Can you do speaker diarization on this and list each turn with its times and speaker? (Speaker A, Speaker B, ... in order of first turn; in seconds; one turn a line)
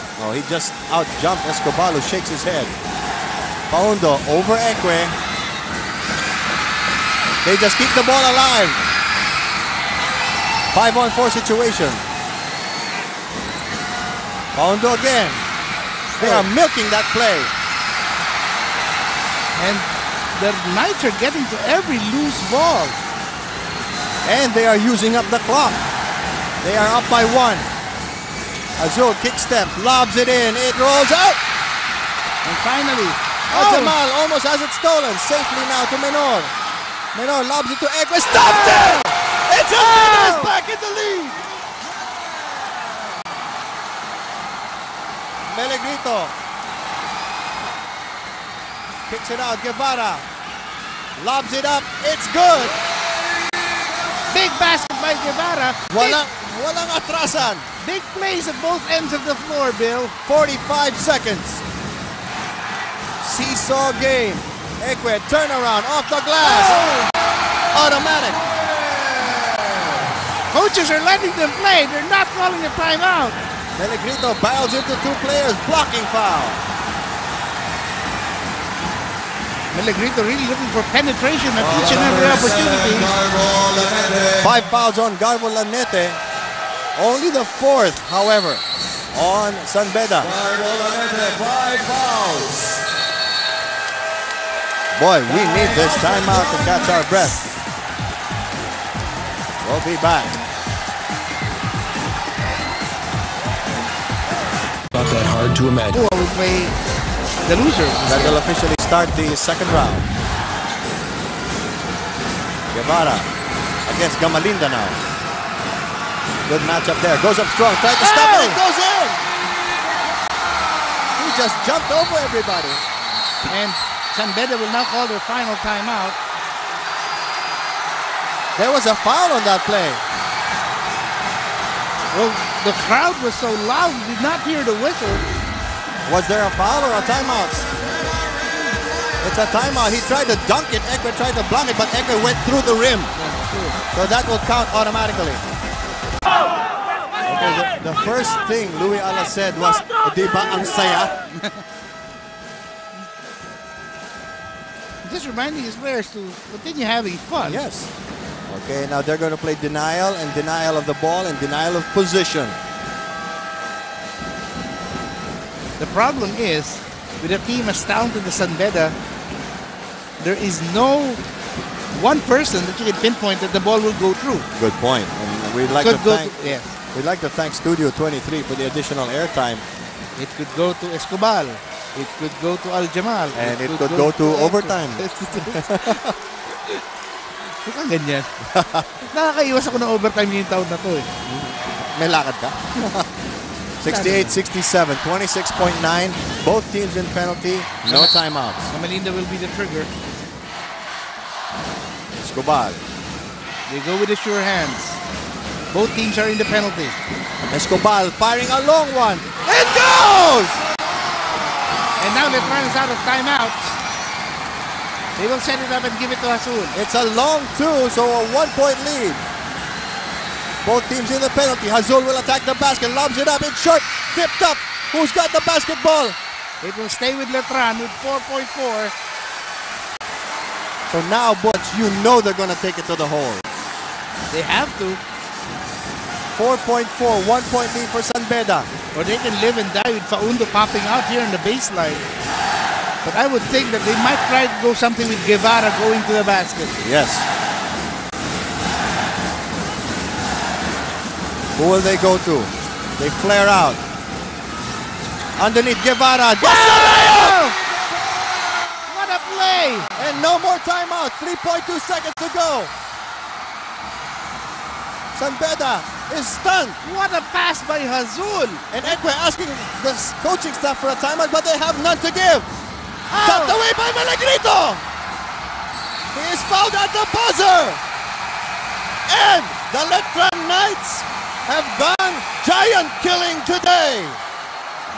Speaker A: 0.2-2.7
Speaker A: 3.7-5.2
Speaker A: 7.4-8.8
Speaker A: 10.7-12.0
Speaker A: 14.6-15.4
Speaker B: 16.2-16.5
Speaker A: 16.2-17.5
Speaker B: 19.6-23.0
Speaker A: 24.2-25.8
Speaker A: 26.6-27.7
Speaker A: 28.8-31.4
Speaker B: 32.5-34.0
Speaker A: 33.5-36.5
Speaker A: 37.1-41.5
Speaker B: 39.8-40.5
Speaker A: 45.5-46.3
Speaker A: 49.1-50.3
Speaker A: 51.2-52.8
Speaker B: 54.3-56.2
Speaker A: 55.9-57.7
Speaker B: 57.8-60.1
Speaker A: 60.3-61.6
Speaker A: 63.2-66.8
Speaker A: 67.7-68.4
Speaker B: 70.5-73.4
Speaker A: 73.8-76.6
Speaker B: 79.7-83.1
Speaker C: 82.1-84.4
Speaker A: 84.4-86.2
Speaker A: 87.0-90.3
Speaker C: 90.3-92.8
Speaker A: 95.0-97.4
Speaker B: 95.3-95.9
Speaker A: 99.6-100.4
Speaker C: 105.1-106.0
Speaker B: 105.9-106.8
Speaker B: 107.5-108.4
Speaker A: 108.1-110.1
Speaker A: 112.7-113.3
Speaker A: 113.9-115.0
Speaker A: 116.5-119.2
Speaker B: 118.0-118.6
Speaker A: 121.2-122.8
Speaker B: 123.4-126.2
Speaker A: 128.6-130.0
Speaker B: 132.1-135.2
Speaker A: 136.1-137.7
Speaker A: 139.2-143.1
Speaker B: 143.1-143.8
Speaker A: 143.9-145.4
Speaker A: 147.3-151.1
Speaker B: 155.0-157.6
Speaker A: 157.4-157.9
Speaker A: 158.5-162.6
Speaker B: 165.8-169.0
Speaker B: 170.2-171.2
Speaker B: 171.9-174.5
Speaker A: 174.6-179.6
Speaker B: 175.8-176.8
Speaker B: 180.2-186.0
Speaker A: 183.3-186.2
Speaker B: 187.7-188.3
Speaker A: 188.5-188.9
Speaker B: 189.0-191.2
Speaker A: 191.3-193.1
Speaker A: 193.8-198.7
Speaker B: 193.8-194.4
Speaker B: 197.8-198.2
Speaker B: 198.7-199.9
Speaker A: 202.1-202.8
Speaker B: 203.7-205.0
Speaker B: 205.7-207.0
Speaker A: 207.5-210.6
Speaker B: 212.0-213.8
Speaker B: 215.2-216.8
Speaker A: 216.7-219.2
Speaker A: 220.6-226.2
Speaker B: 226.6-228.9
Speaker A: 230.9-233.4
Speaker B: 234.3-235.0
Speaker A: 236.3-238.7
Speaker B: 238.9-242.1
Speaker B: 243.0-246.8
Speaker A: 246.8-247.3
Speaker A: 251.6-253.8
Speaker A: 255.4-257.5
Speaker B: 256.4-257.6
Speaker B: 258.9-259.9
Speaker A: 260.0-262.7
Speaker A: 265.1-266.8
Speaker B: 266.8-268.7
Speaker A: 268.7-272.5
Speaker B: 273.1-273.6
Speaker A: 273.2-274.8
Speaker A: 276.1-277.8
Speaker A: 279.1-284.2